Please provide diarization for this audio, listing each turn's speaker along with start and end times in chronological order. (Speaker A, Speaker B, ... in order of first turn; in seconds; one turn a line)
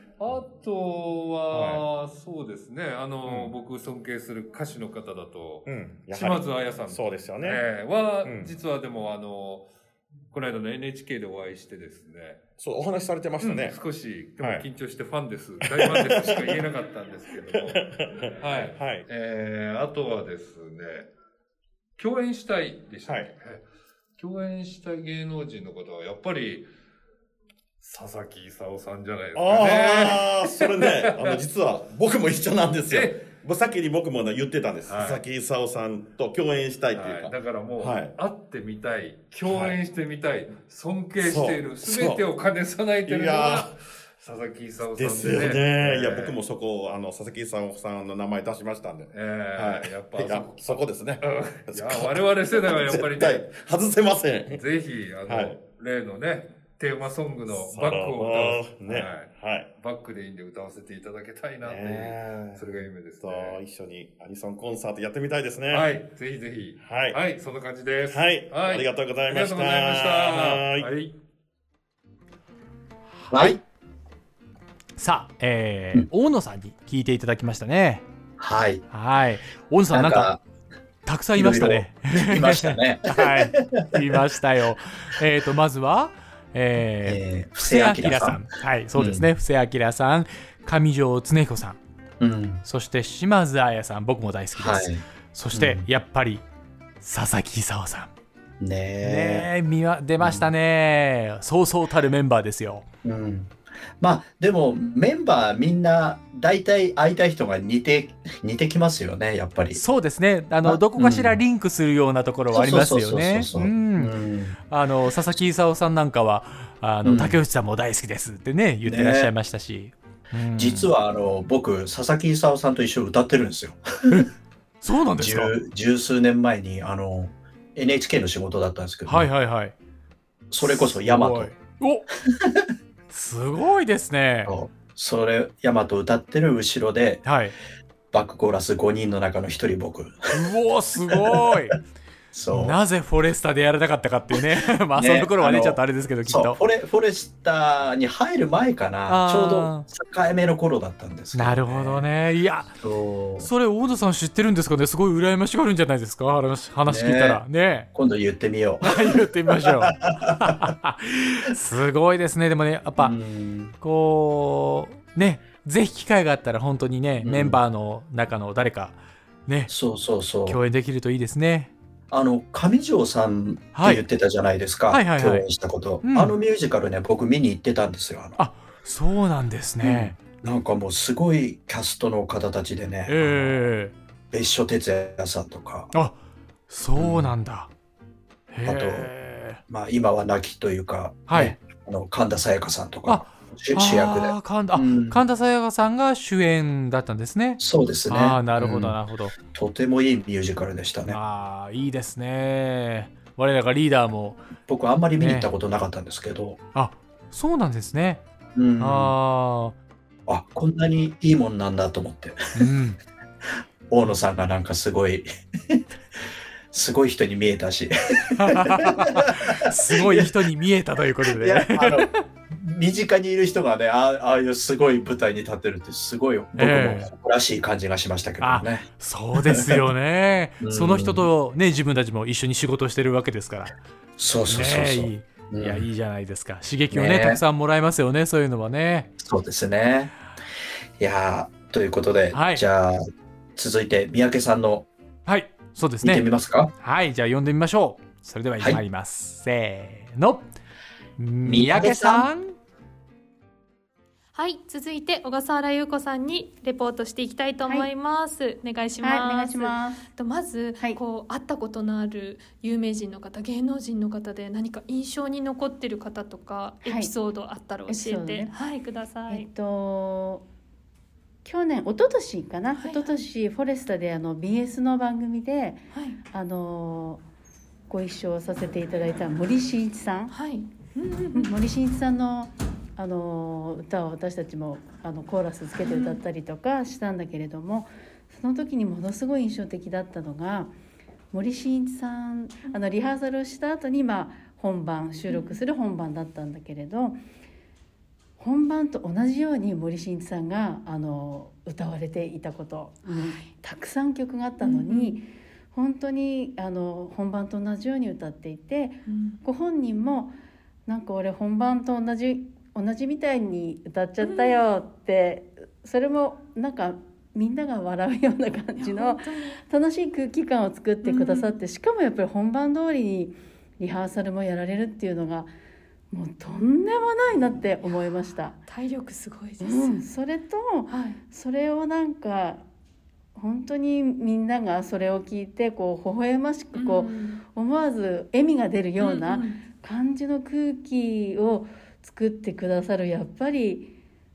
Speaker A: 0.2-9.7
Speaker B: 1.5-1.8
Speaker B: 3.2-3.6
Speaker B: 5.7-7.6
Speaker B: 8.2-8.5
Speaker A: 10.3-12.4
Speaker B: 12.6-13.8
Speaker A: 13.4-21.1
Speaker B: 14.4-14.7
Speaker B: 15.6-16.7
Speaker B: 17.4-19.1
Speaker A: 22.0-23.6
Speaker B: 23.1-23.3
Speaker A: 24.2-26.7
Speaker A: 27.8-31.4
Speaker B: 29.4-38.2
Speaker A: 32.9-33.3
Speaker A: 34.9-35.2
Speaker A: 36.9-46.4
Speaker B: 39.5-39.8
Speaker B: 41.2-42.3
Speaker B: 43.0-43.8
Speaker B: 44.9-54.6
Speaker A: 49.1-53.6
Speaker A: 54.5-63.6
Speaker B: 55.3-55.6
Speaker B: 57.5-59.7
Speaker B: 61.6-66.0
Speaker A: 65.7-71.2
Speaker B: 66.8-67.2
Speaker B: 68.1-70.9
Speaker C: 73.3-73.6
Speaker D: 73.3-73.6
Speaker C: 75.0-78.0
Speaker D: 78.4-78.8
Speaker C: 78.9-80.3
Speaker D: 79.9-80.4
Speaker C: 81.1-91.8
Speaker D: 81.4-84.2
Speaker D: 87.0-89.3
Speaker D: 92.2-92.6
Speaker C: 92.7-96.4
Speaker D: 94.5-95.9
Speaker C: 97.0-98.1
Speaker D: 98.6-99.5
Speaker C: 99.0-102.8
Speaker D: 100.2-100.5
Speaker D: 103.0-109.8
Speaker C: 109.7-114.1
Speaker D: 110.6-111.4
Speaker D: 112.5-114.6
Speaker C: 114.7-120.9
Speaker D: 117.0-117.4
Speaker D: 118.8-119.3
Speaker D: 120.6-124.3
Speaker C: 124.8-125.6
Speaker D: 125.2-129.3
Speaker C: 129.1-129.8
Speaker D: 130.5-131.5
Speaker C: 130.6-132.1
Speaker D: 132.3-132.7
Speaker C: 133.1-134.6
Speaker D: 134.5-137.2
Speaker C: 137.2-137.6
Speaker D: 138.1-140.3
Speaker C: 140.3-141.8
Speaker D: 141.0-141.6
Speaker D: 142.3-142.8
Speaker C: 142.5-146.6
Speaker D: 144.9-152.1
Speaker C: 149.1-149.9
Speaker C: 151.3-152.7
Speaker D: 152.7-153.5
Speaker C: 153.4-157.9
Speaker D: 156.9-157.4
Speaker D: 157.9-160.7
Speaker C: 158.8-163.2
Speaker D: 163.0-163.7
Speaker C: 163.8-169.7
Speaker D: 167.2-167.6
Speaker D: 169.7-170.6
Speaker C: 170.5-171.7
Speaker D: 172.1-178.4
Speaker C: 173.8-174.0
Speaker C: 174.9-175.5
Speaker C: 176.0-176.4
Speaker C: 178.4-180.2
Speaker D: 179.8-183.6
Speaker C: 183.1-183.9
Speaker D: 184.3-185.9
Speaker C: 186.7-187.7
Speaker D: 187.0-187.4
Speaker C: 188.5-189.6
Speaker D: 188.6-189.1
Speaker D: 189.7-195.2
Speaker C: 191.3-191.6
Speaker C: 193.1-199.3
Speaker D: 197.6-201.2
Speaker C: 201.1-204.4
Speaker D: 204.7-206.6
Speaker C: 205.2-205.5
Speaker C: 206.8-208.2
Speaker D: 208.6-209.2
Speaker C: 208.8-209.8
Speaker D: 210.3-212.6
Speaker C: 212.6-213.0
Speaker D: 213.9-215.8
Speaker D: 216.7-220.3
Speaker C: 218.4-222.2
Speaker D: 221.2-229.8
Speaker C: 226.6-227.1
Speaker C: 228.4-233.7
Speaker D: 230.6-231.3
Speaker D: 234.2-235.9
Speaker C: 234.5-239.1
Speaker D: 236.9-237.4
Speaker D: 239.2-240.1
Speaker D: 241.0-244.9
Speaker C: 242.3-242.6
Speaker C: 245.3-246.3
Speaker D: 246.0-246.7
Speaker C: 246.8-250.5
Speaker C: 251.2-252.6
Speaker D: 251.4-252.3
Speaker E: 254.3-269.5
Speaker F: 259.0-260.0
Speaker F: 266.9-267.1
Speaker F: 267.9-268.5
Speaker F: 269.3-270.4
Speaker F: 271.4-277.2
Speaker E: 272.8-273.2
Speaker E: 275.9-276.2
Speaker F: 277.9-280.4
Speaker E: 280.3-281.5
Speaker F: 281.3-290.7
Speaker E: 285.8-286.2
Speaker F: 291.3-297.2
Speaker E: 295.3-295.6
Speaker F: 298.4-310.3
Speaker E: 303.1-303.5
Speaker E: 304.6-305.2
Speaker E: 309.1-309.4
Speaker F: 310.9-325.5
Speaker E: 314.2-314.6
Speaker E: 318.8-319.6
Speaker E: 321.0-321.6
Speaker F: 326.1-328.6
Speaker E: 327.8-330.0
Speaker F: 329.6-332.6
Speaker E: 330.9-331.2
Speaker F: 333.4-343.9
Speaker E: 336.7-337.4
Speaker E: 339.0-339.6